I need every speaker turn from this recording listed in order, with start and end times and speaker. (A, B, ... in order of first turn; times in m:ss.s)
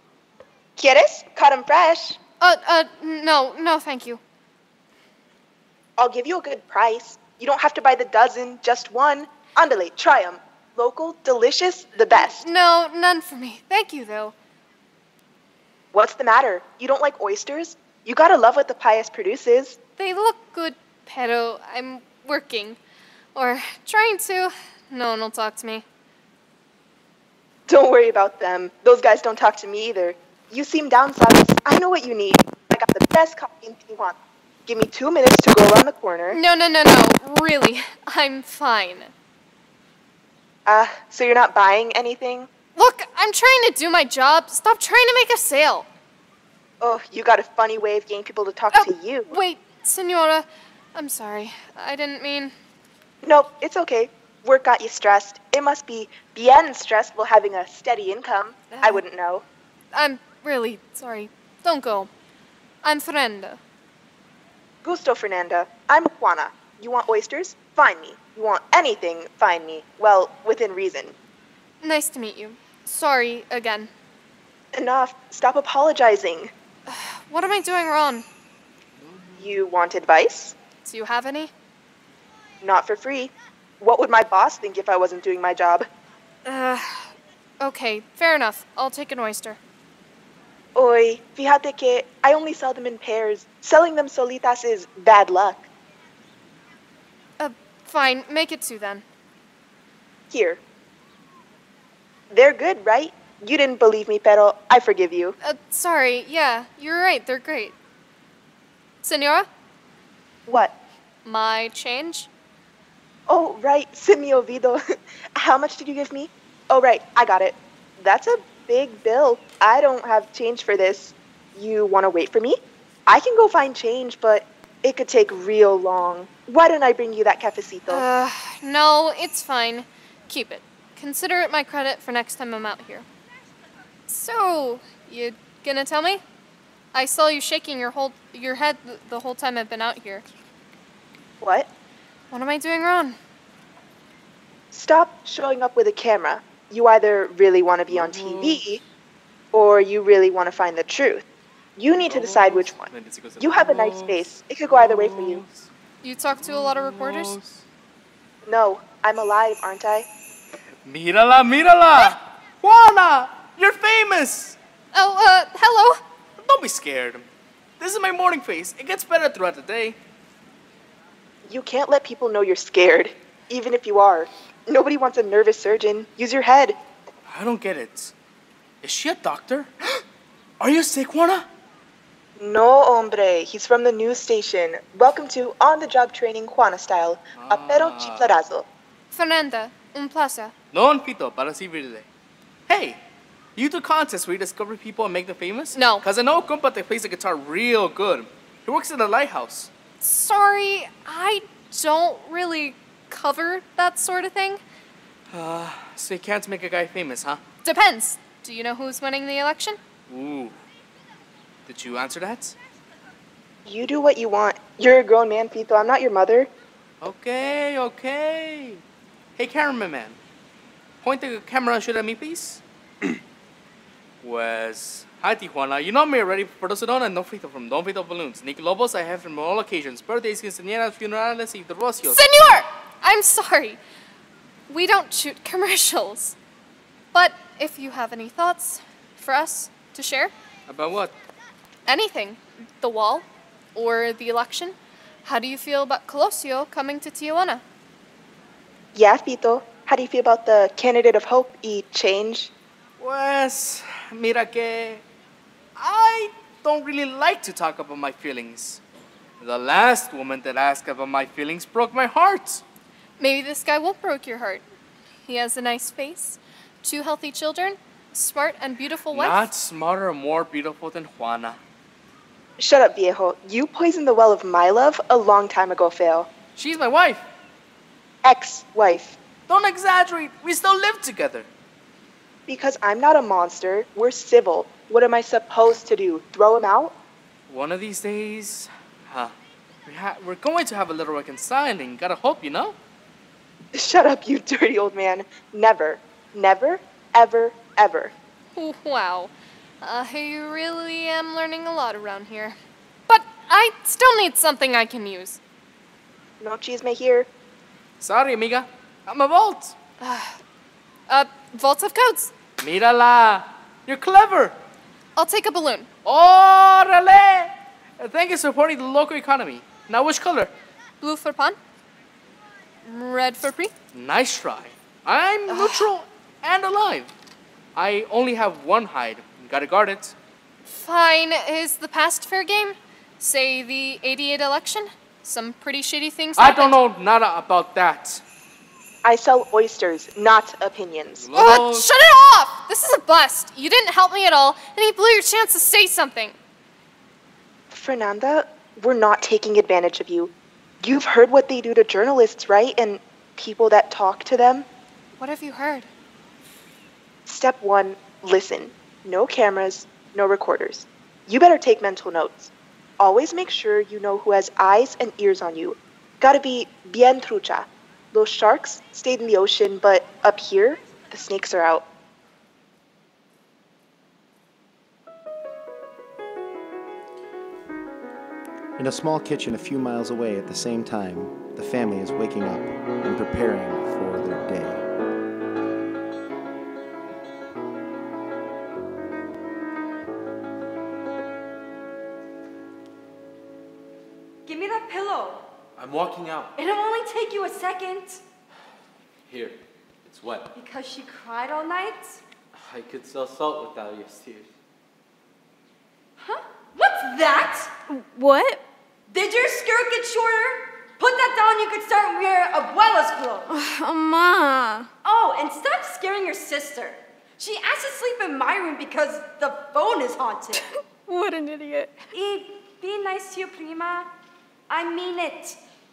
0:00.8-0:02.2 A
0:02.4-0:04.2 B
0:06.0-0:12.4 A
0:12.1-0:14.3 B
0:15.9-0:19.8 A
0:20.0-0:22.8 B
0:23.3-0:25.8 B
0:27.7-0:36.4 A
0:36.3-0:39.1 B
0:40.6-0:42.5 A
0:42.8-0:45.9 B
0:46.8-0:49.3 A
0:48.7-0:52.5 B
0:53.2-0:59.4 A
0:59.9-1:02.1 B
1:02.8-1:03.6 B
1:04.8-1:11.1 A
1:11.8-1:13.9 B
1:14.7-1:16.5 A
1:16.9-1:18.2 B
1:19.4-1:20.5 A
1:20.8-1:21.5 B
1:22.6-1:25.9 A
1:26.4-1:29.6 B
1:30.7-1:35.7 A
1:37.4-1:39.0 B
1:40.3-1:40.6 A
1:42.3-1:45.3 A
1:45.4-1:47.7 B
1:49.0-1:49.5 B
1:50.5-1:50.7 A
1:51.2-1:52.3 B
1:53.3-2:08.0 A
2:07.9-2:13.0 B
2:14.1-2:16.2 B
2:16.9-2:20.2 B
2:21.4-2:21.7 A
2:22.3-2:23.2 B
2:24.7-2:28.8 A
2:29.5-2:31.2 A
2:31.8-2:32.9 A
2:32.1-2:34.2 C
2:33.4-2:35.4 A
2:34.9-2:35.7 C
2:36.0-2:37.3 B
2:36.4-2:37.6 C
2:38.4-2:40.0 A
2:40.8-2:44.6 C
2:44.9-2:46.0 B
2:46.4-2:47.3 C
2:47.8-2:50.0 C
2:51.4-2:56.8 A
2:57.3-2:58.1 C
2:58.8-2:59.7 C
3:00.6-3:01.4 C
3:02.4-3:08.7 A
3:07.3-3:08.3 C
3:09.1-3:10.5 B
3:10.7-3:12.1 C
3:12.7-3:13.0 C
3:13.6-3:19.7 C
3:15.7-3:16.0 B
3:20.0-3:24.6 B
3:25.3-3:27.4 C
3:27.6-3:29.8 B
3:30.1-3:30.6 C
3:31.6-3:32.6 C
3:33.6-3:36.5 A
3:37.0-3:38.8 C
3:39.4-3:40.2 C
3:41.0-3:42.6 C
3:44.2-3:52.2 C
3:52.0-3:53.8 B
3:54.7-3:56.4 B
3:57.1-4:00.3 B
4:00.7-4:01.1 C
4:01.9-4:07.6 B
4:08.9-4:12.5 A
4:13.0-4:15.0 C
4:15.8-4:18.8 C
4:19.4-4:22.6 C
4:23.2-4:24.6 B
4:25.2-4:29.5 B
4:29.1-4:31.6 C
4:32.6-4:36.3 A
4:36.6-4:37.3 C
4:38.2-4:39.2 A
4:39.5-4:41.5 C
4:42.5-4:46.9 A
4:47.5-4:49.3 C
4:49.8-4:52.8 C
4:53.7-4:58.1 A
4:58.5-5:05.4 B
5:06.4-5:07.3 A
5:08.0-5:09.8 C
5:10.0-5:10.4 B
5:11.1-5:12.3 B
5:12.6-5:14.6 C
5:15.2-5:15.9 B
5:16.0-5:20.5 C
5:21.0-5:21.6 B
5:22.8-5:23.7 B
5:23.9-5:27.1 C
5:25.5-5:25.9 B
5:27.7-5:30.1 C
5:30.7-5:36.8 B
5:36.4-5:38.2 C
5:39.0-5:41.3 A
5:41.2-5:41.9 C
5:41.4-5:46.4 B
5:47.7-5:54.6 A
5:55.2-5:55.9 B
5:57.2-6:11.8 A
6:18.8-6:24.8 D
6:34.4-6:35.5 E
6:35.8-6:36.5 F
6:36.5-6:38.2 E
6:39.3-6:40.5 F
6:40.5-6:42.2 E
6:42.5-6:44.5 F
6:46.2-6:47.7 E
6:47.9-6:48.6 G
6:49.1-6:53.5 E
6:53.5-6:54.9 G
6:55.0-7:00.6 E
7:01.0-7:02.0 G
7:02.1-7:04.1 E
7:04.7-7:05.6 E